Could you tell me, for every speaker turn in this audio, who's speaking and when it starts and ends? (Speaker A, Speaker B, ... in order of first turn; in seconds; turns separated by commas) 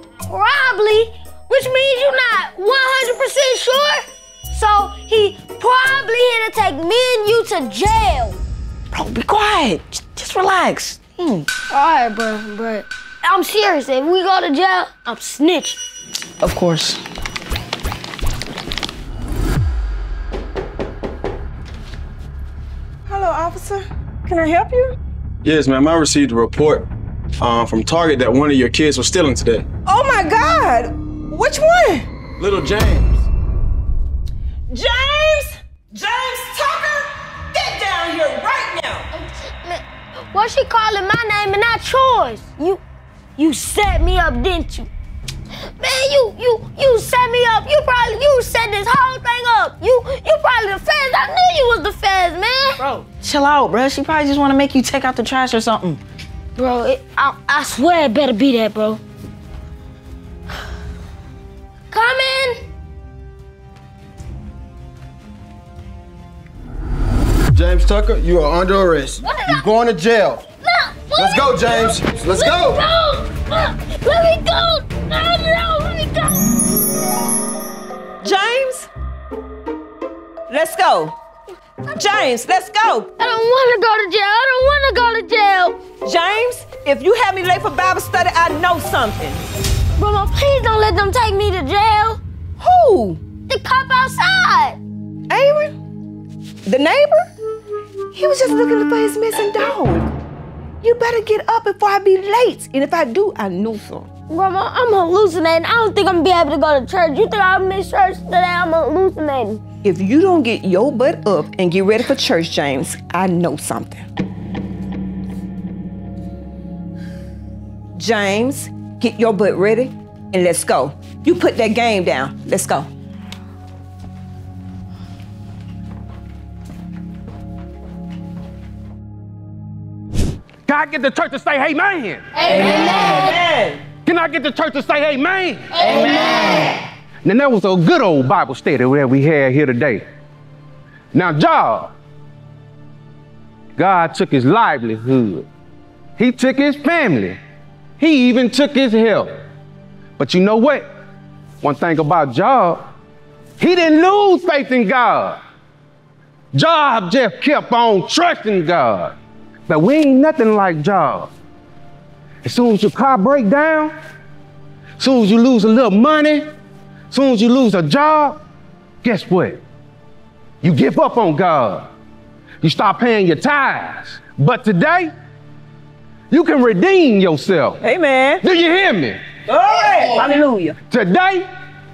Speaker A: 0.3-8.4, Speaker B: 8.9-11.5, Speaker A: 11.7-15.8, Speaker B: 16.4-17.0, Speaker C: 23.1-24.9, Speaker D: 25.4-29.7, Speaker C: 29.9-32.1, Speaker D: 32.4-33.3, Speaker C: 34.7-39.1, Speaker A: 39.1-42.8, Speaker A: 43.4-44.9, Speaker A: 45.8-52.8, Speaker B: 53.2-56.0, Speaker A: 56.6-59.0, Speaker A: 61.9-62.6, Speaker D: 67.5-70.5, Speaker A: 69.2-69.7, Speaker A: 70.6-76.4, Speaker D: 71.1-72.8, Speaker C: 78.2-78.9, Speaker C: 80.5-81.2, Speaker C: 81.9-83.1, Speaker A: 83.2-85.9, Speaker C: 86.0-89.5, Speaker A: 90.0-92.2, Speaker C: 92.6-93.2, Speaker A: 93.4-94.8, Speaker C: 95.3-95.7, Speaker C: 96.7-97.3, Speaker C: 98.1-100.1, Speaker C: 100.8-104.1, Speaker A: 104.3-109.6, Speaker C: 109.8-114.0, Speaker C: 118.0-122.9, Speaker E: 130.7-132.3, Speaker C: 132.5-133.8, Speaker A: 132.6-133.4, Speaker E: 133.9-135.8, Speaker C: 135.8-136.3, Speaker E: 137.2-140.0, Speaker E: 141.1-141.9, Speaker E: 143.8-145.5, Speaker E: 146.2-147.4, Speaker E: 148.0-149.3, Speaker E: 150.2-150.8, Speaker E: 151.6-152.8, Speaker E: 153.6-155.4, Speaker E: 156.5-159.1, Speaker E: 159.7-161.3, Speaker E: 162.4-163.9, Speaker E: 165.0-166.5, Speaker E: 167.1-168.4, Speaker E: 169.0-169.6, Speaker E: 170.6-171.9, Speaker E: 172.6-175.1, Speaker E: 176.3-177.8, Speaker C: 177.8-178.4, Speaker E: 178.4-179.2, Speaker C: 179.5-180.8, Speaker E: 180.9-181.5